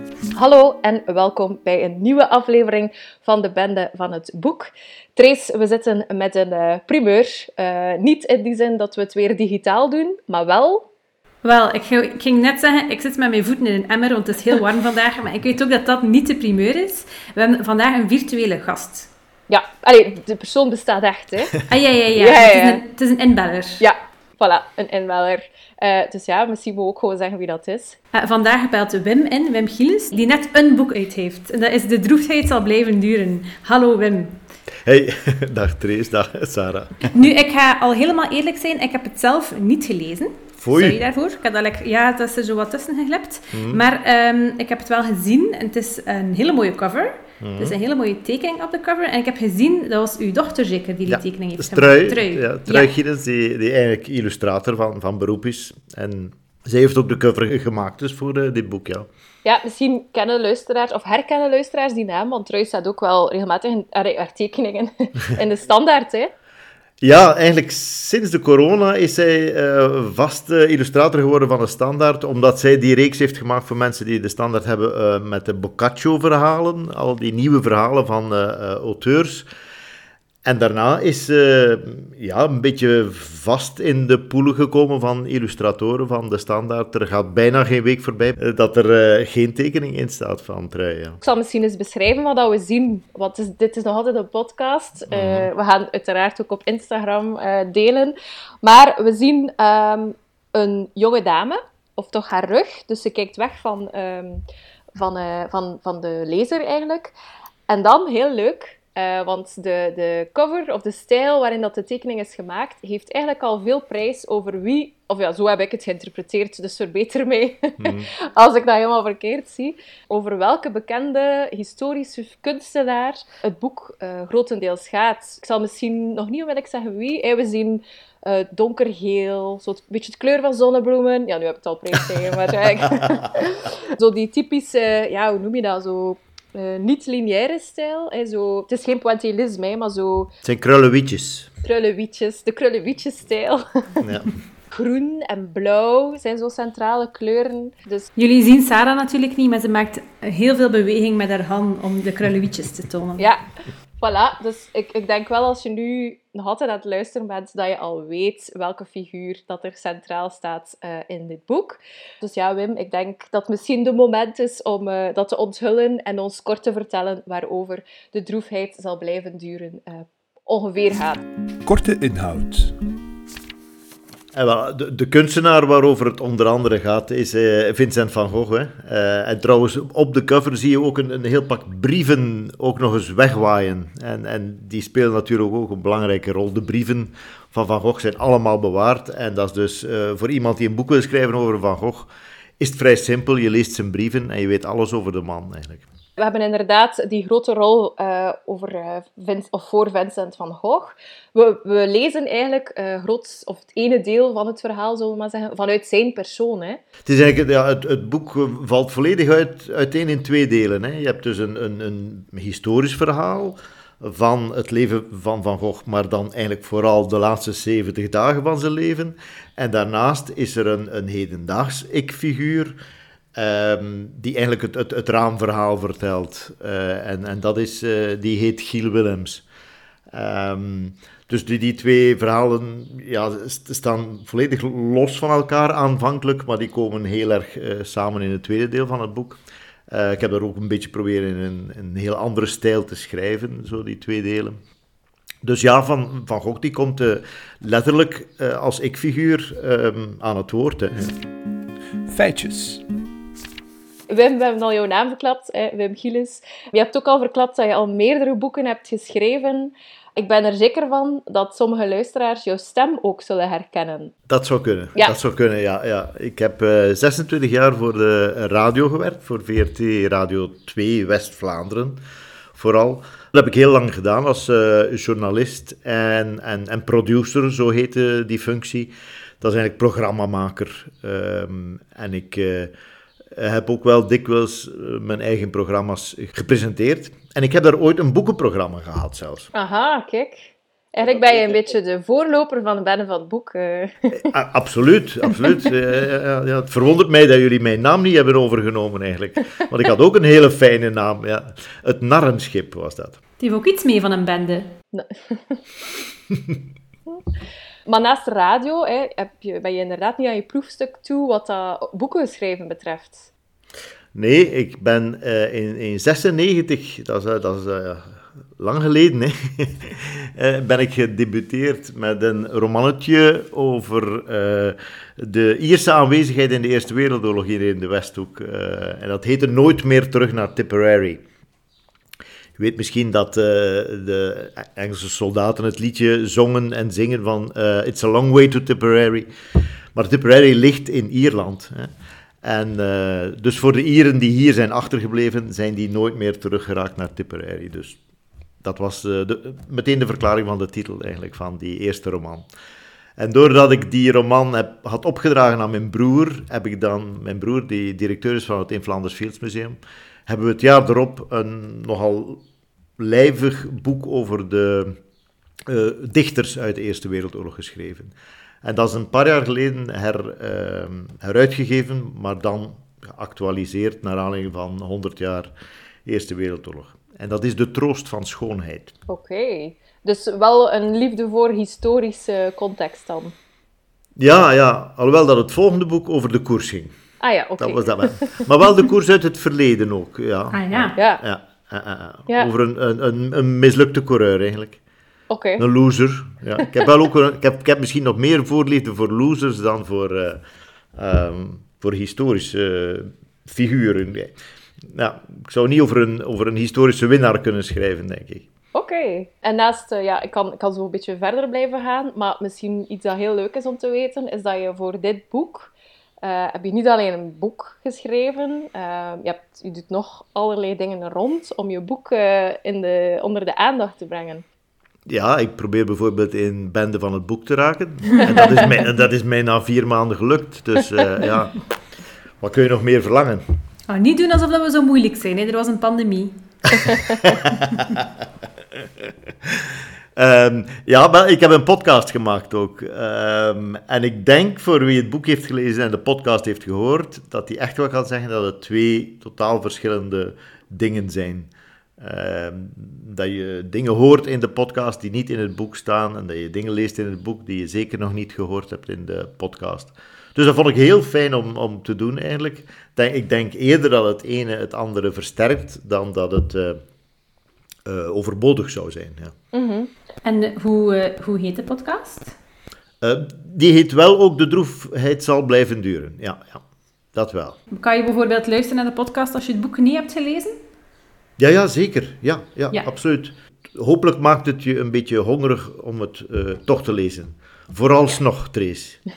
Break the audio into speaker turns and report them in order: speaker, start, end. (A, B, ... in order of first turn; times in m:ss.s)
0:00.3-0:10.9 A
0:11.4-0:19.1 B
0:19.5-0:22.8 A
0:21.6-0:23.8 B
0:23.8-0:28.0 A
0:28.1-0:34.4 B
0:34.8-0:37.1 C
0:37.1-0:52.9 B
0:40.6-0:41.0 C
0:43.5-0:43.8 C
0:47.4-0:47.8 C
0:51.1-0:59.1 C
0:59.4-1:06.3 A
1:07.0-1:19.5 C
1:20.4-1:31.2 C
1:31.2-1:44.4 A
1:35.1-1:35.5 C
1:45.0-1:47.1 A
1:47.7-2:20.3 A
1:57.8-1:58.1 C
2:20.4-2:21.5 C
2:21.6-2:24.0 A
2:24.0-2:24.3 C
2:24.7-2:28.1 A
2:28.2-2:33.2 B
2:33.2-2:33.4 A
2:34.0-2:51.2 A
2:51.6-2:52.8 D
2:54.3-3:15.8 C
3:16.2-3:26.8 A
3:27.0-3:42.8 C
3:43.3-3:49.4 C
3:50.1-4:04.6 C
4:05.4-4:11.1 C
4:12.0-4:12.8 D
4:14.1-4:24.1 A
4:24.3-4:32.0 C
4:32.5-4:42.7 C
4:43.3-4:49.5 C
4:49.5-4:54.3 A
4:54.3-5:03.2 C
5:03.4-5:04.7 B
5:04.9-5:05.6 A
5:07.9-5:13.3 A
5:14.1-5:31.2 C
5:32.6-5:39.3 C
5:39.9-5:41.9 C
5:42.4-5:48.0 C
5:48.6-5:52.4 C
5:53.2-6:02.4 C
6:03.0-6:05.0 C
6:05.6-6:15.5 C
6:16.0-6:18.9 C
6:19.1-6:23.3 A
6:24.2-6:26.9 C
6:27.2-6:28.4 A
6:27.6-6:34.8 C
6:30.5-6:31.0 B
6:30.9-6:31.2 A
6:35.3-6:35.6 A
6:35.6-6:40.4 C
6:40.9-6:48.5 C
6:48.7-6:55.7 A
6:56.2-7:04.4 A
7:05.1-7:11.6 C
7:12.4-7:13.4 C
7:13.9-7:17.2 B
7:16.8-7:18.2 C
7:18.8-7:46.8 C
7:47.8-7:49.3 C
7:49.5-7:49.9 A
7:50.2-7:52.3 B
7:53.0-7:56.6 C
7:57.1-7:57.6 C
7:57.7-8:00.6 B
8:01.4-8:09.0 C